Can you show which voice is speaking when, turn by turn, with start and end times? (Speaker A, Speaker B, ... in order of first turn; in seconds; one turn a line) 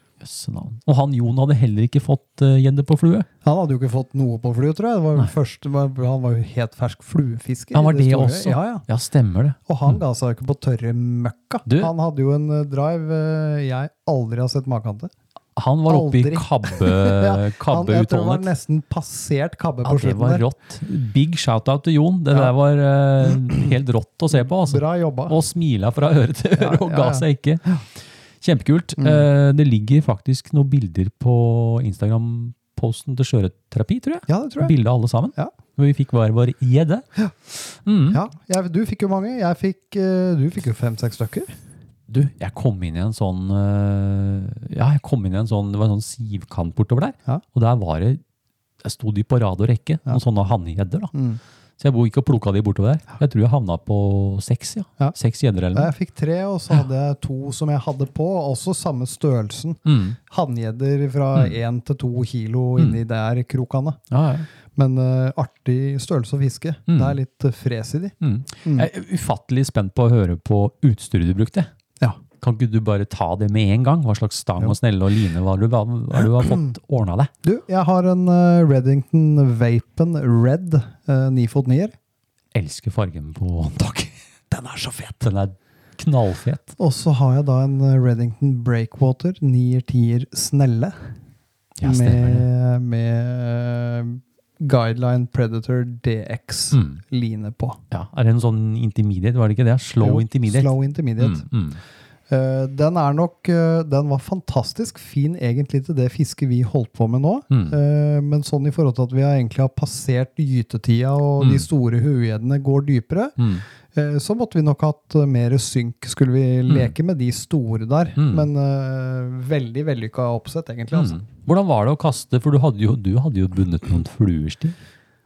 Speaker A: 0.2-3.3
Speaker B: 3.4-8.8
Speaker A: 7.7-10.0
Speaker B: 9.7-15.1
Speaker A: 11.7-11.9
Speaker A: 15.6-18.5
Speaker B: 15.9-20.4
Speaker A: 19.8-27.8
Speaker B: 24.4-25.4
Speaker B: 26.6-27.8
Speaker A: 28.4-37.0
Speaker B: 29.0-29.2
Speaker B: 34.3-34.7
Speaker A: 37.6-38.2
Speaker B: 38.1-41.5
Speaker A: 42.1-48.2
Speaker A: 48.8-51.1
Speaker B: 51.1-51.4
Speaker A: 51.8-55.9
Speaker B: 55.7-64.0
Speaker A: 59.9-60.2
Speaker A: 64.1-64.5
Speaker B: 64.8-68.9
Speaker A: 66.9-67.2
Speaker A: 68.2-71.7
Speaker A: 72.4-77.3
Speaker B: 76.4-76.7
Speaker B: 77.4-81.9
Speaker A: 82.5-84.1
Speaker B: 84.5-85.2
Speaker A: 85.2-86.7
Speaker B: 86.8-91.1
Speaker A: 91.8-92.5
Speaker B: 91.8-97.8
Speaker A: 96.7-97.0
Speaker A: 97.9-101.8
Speaker B: 100.0-101.5
Speaker B: 102.3-113.4
Speaker A: 107.5-107.8
Speaker A: 111.4-111.7
Speaker A: 113.4-113.6
Speaker B: 113.9-121.2
Speaker A: 116.7-116.9
Speaker A: 118.2-118.5
Speaker A: 120.9-124.8